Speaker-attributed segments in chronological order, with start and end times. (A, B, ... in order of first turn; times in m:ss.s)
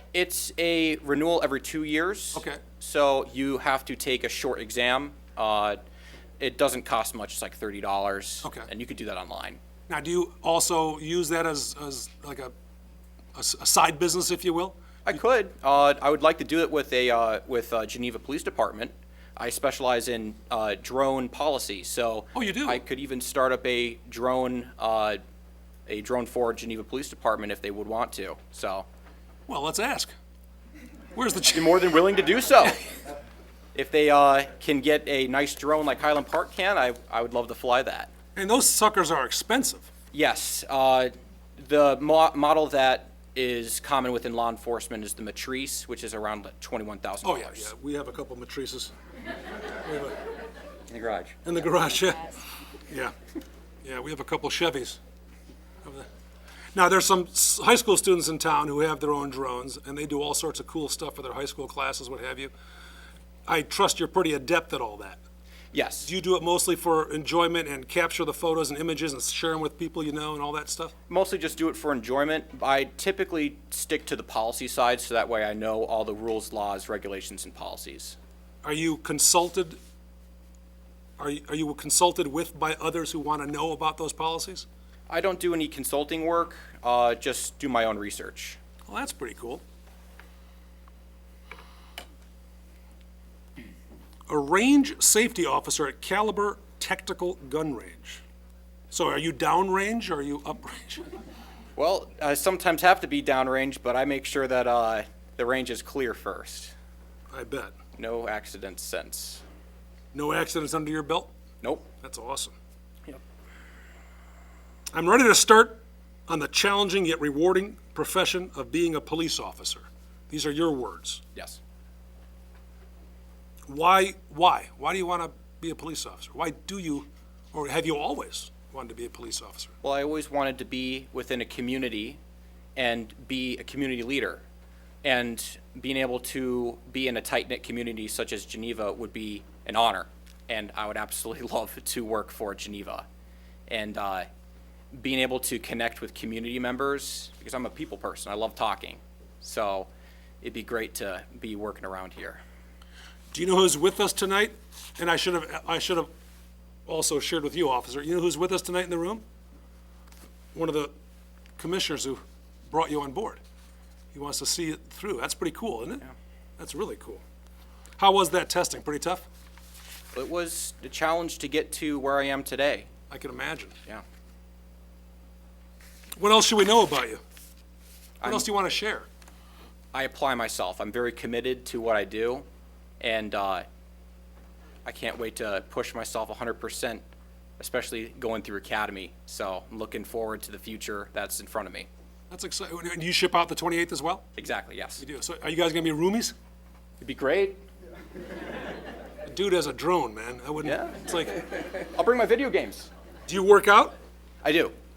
0:00.1-0:05.8 A
0:02.3-0:02.6 B
0:06.4-0:09.6 A
0:08.4-0:08.7 B
0:09.9-0:12.5 B
0:13.3-0:14.8 B
0:15.0-0:25.2 A
0:22.3-0:22.8 B
0:25.9-0:28.9 A
0:29.5-0:30.1 B
0:31.1-0:31.9 B
0:31.5-0:32.8 A
0:33.7-0:38.1 A
0:38.4-0:39.9 B
0:40.1-0:47.7 A
0:47.2-0:48.9 B
0:49.8-0:50.2 B
0:50.9-0:51.3 A
0:51.4-0:53.1 B
0:53.8-0:55.0 B
0:56.7-1:02.5 B
1:03.5-1:05.2 B
1:05.7-1:06.1 A
1:06.0-1:10.9 B
1:11.1-1:18.2 A
1:18.6-1:19.8 B
1:21.2-1:24.6 B
1:25.1-1:28.6 A
1:28.9-1:29.6 B
1:34.3-1:38.2 B
1:38.9-1:41.0 B
1:41.8-1:46.7 A
1:47.3-1:47.8 B
1:48.0-1:49.4 A
1:50.1-1:51.3 B
1:51.6-1:51.9 A
1:52.0-1:52.5 B
1:54.9-2:01.2 B
2:03.7-2:09.7 B
2:09.8-2:12.2 A
2:12.8-2:14.4 A
2:15.0-2:23.0 A
2:23.7-2:24.3 A
2:24.9-2:29.9 A
2:30.4-2:32.4 A
2:33.3-2:36.1 B
2:36.8-2:39.2 B
2:40.5-2:40.9 B
2:41.6-2:43.4 B
2:44.1-2:47.2 B
2:48.0-2:49.2 B
2:50.1-2:52.9 A
2:53.1-2:53.8 B
2:56.2-2:57.2 B
2:58.2-2:58.5 A
2:58.2-2:59.1 B
2:59.9-3:02.4 A
3:03.0-3:03.6 A
3:04.8-3:07.0 A
3:07.6-3:11.9 A
3:12.3-3:14.2 B
3:14.4-3:15.0 A
3:15.0-3:16.3 B
3:17.0-3:17.6 A
3:19.2-3:21.7 B
3:20.6-3:22.9 A
3:23.3-3:24.0 B
3:24.4-3:24.7 A